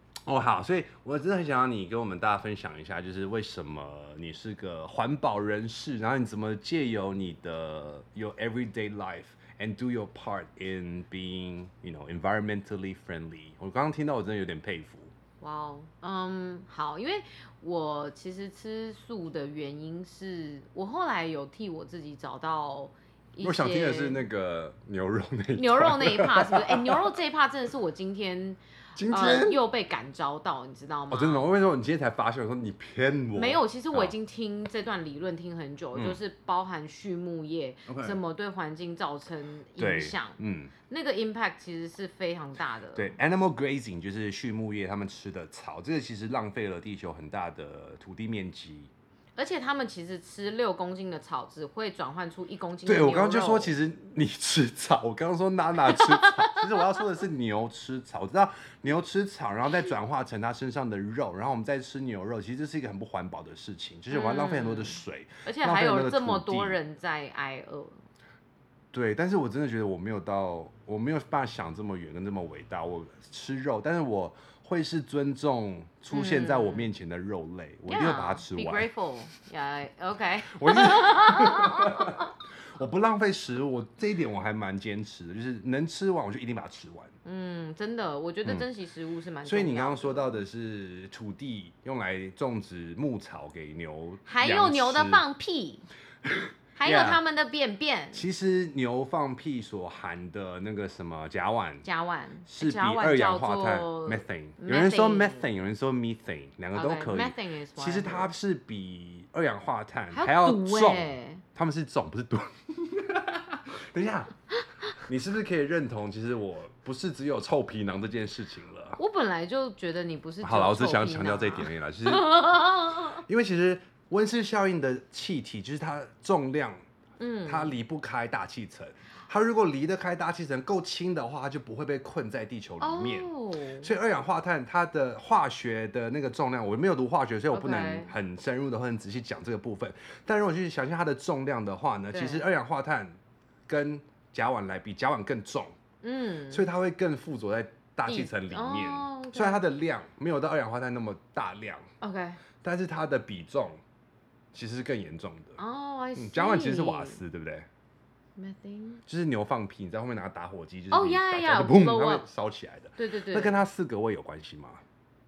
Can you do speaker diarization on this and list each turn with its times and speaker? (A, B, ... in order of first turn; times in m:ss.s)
0:00.2-0:15.1 A
0:15.4-0:24.2 B
0:23.4-0:27.0 A
0:25.6-0:31.5 B
0:29.0-0:29.6 A
0:31.1-0:34.1 A
0:33.4-0:43.1 B
0:37.9-0:38.2 A
0:39.8-0:40.7 A
0:43.0-0:48.9 A
0:49.4-0:53.7 B
0:52.9-1:06.8 A
0:55.9-0:57.0 B
1:04.1-1:08.0 B
1:08.9-1:18.9 A
1:16.1-1:16.9 B
1:17.9-1:22.3 B
1:20.5-1:22.2 A
1:22.7-1:27.1 A
1:27.2-1:30.4 B
1:29.4-1:35.2 A
1:34.2-1:35.9 B
1:36.2-1:37.2 A
1:36.8-1:38.2 B
1:38.1-1:41.8 A
1:41.8-1:45.5 B
1:42.5-1:54.3 A
1:46.7-1:48.3 B
1:50.1-1:51.4 B
1:55.0-1:59.0 A
1:59.0-2:03.2 B
2:00.4-2:02.6 A
2:03.1-2:06.8 A
2:07.2-2:07.7 B
2:07.5-2:13.3 A
2:12.8-2:13.9 B
2:13.8-2:23.2 A
2:17.5-2:18.1 B
2:22.1-2:22.5 B
2:23.7-2:25.8 A
2:26.0-2:26.6 B
2:26.5-2:31.9 A
2:28.1-2:29.6 B
2:32.0-2:32.4 B
2:32.6-2:33.8 A
2:34.5-2:35.6 A
2:35.6-2:37.2 B
2:36.2-2:37.7 A
2:38.4-2:39.0 B
2:39.1-2:44.8 A
2:40.9-2:42.2 B
2:43.0-2:43.6 B